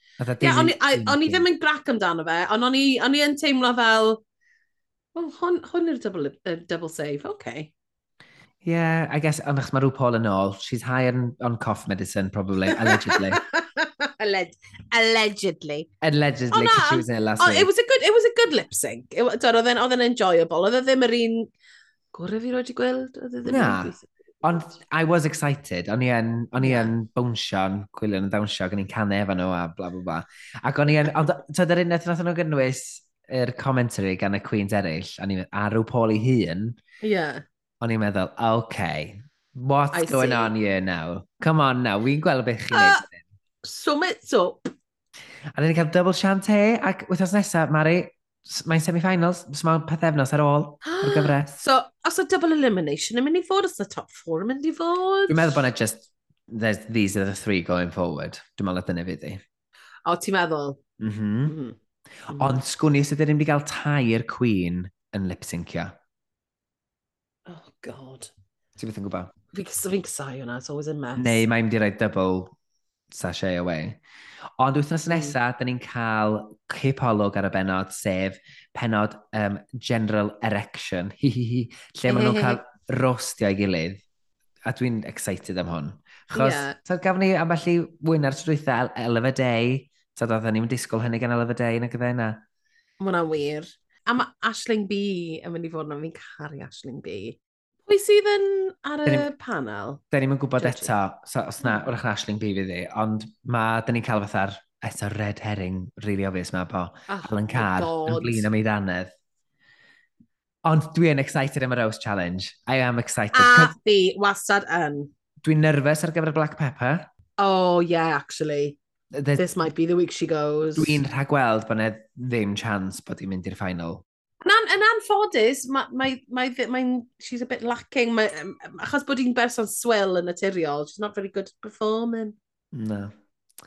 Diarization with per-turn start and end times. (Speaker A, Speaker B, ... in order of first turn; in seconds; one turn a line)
Speaker A: 0.2-1.4
Speaker B: 0.4-4.2
Speaker B: 5.2-7.7
Speaker A: 8.6-13.4
Speaker B: 12.7-15.9
Speaker A: 16.0-17.7
Speaker B: 16.5-21.5
Speaker B: 22.1-24.7
Speaker A: 23.4-36.8
Speaker B: 26.6-26.9
Speaker B: 37.0-37.4
Speaker A: 37.8-43.2
Speaker B: 39.9-40.5
Speaker B: 42.7-43.0
Speaker B: 43.6-44.7
Speaker A: 45.5-51.6
Speaker B: 50.8-55.6
Speaker A: 55.3-59.4
Speaker B: 60.1-60.8
Speaker A: 61.0-61.6
Speaker B: 61.5-61.8
Speaker B: 62.3-62.6
Speaker A: 62.3-66.0
Speaker B: 67.5-68.3
Speaker A: 68.8-69.3
Speaker B: 69.5-71.4
Speaker A: 71.2-72.5
Speaker A: 73.1-74.0
Speaker A: 74.6-84.0
Speaker B: 75.1-75.3
Speaker B: 82.1-82.6
Speaker A: 84.7-92.4
Speaker B: 86.3-86.8
Speaker B: 93.0-100.0
Speaker A: 100.1-109.1
Speaker B: 100.6-100.9
Speaker B: 107.1-108.5
Speaker A: 110.6-113.7
Speaker B: 113.3-115.1
Speaker A: 115.4-117.1
Speaker B: 117.4-118.8
Speaker A: 119.1-119.5
Speaker B: 119.3-121.0
Speaker A: 120.8-124.0
Speaker B: 124.4-132.4
Speaker A: 132.7-133.1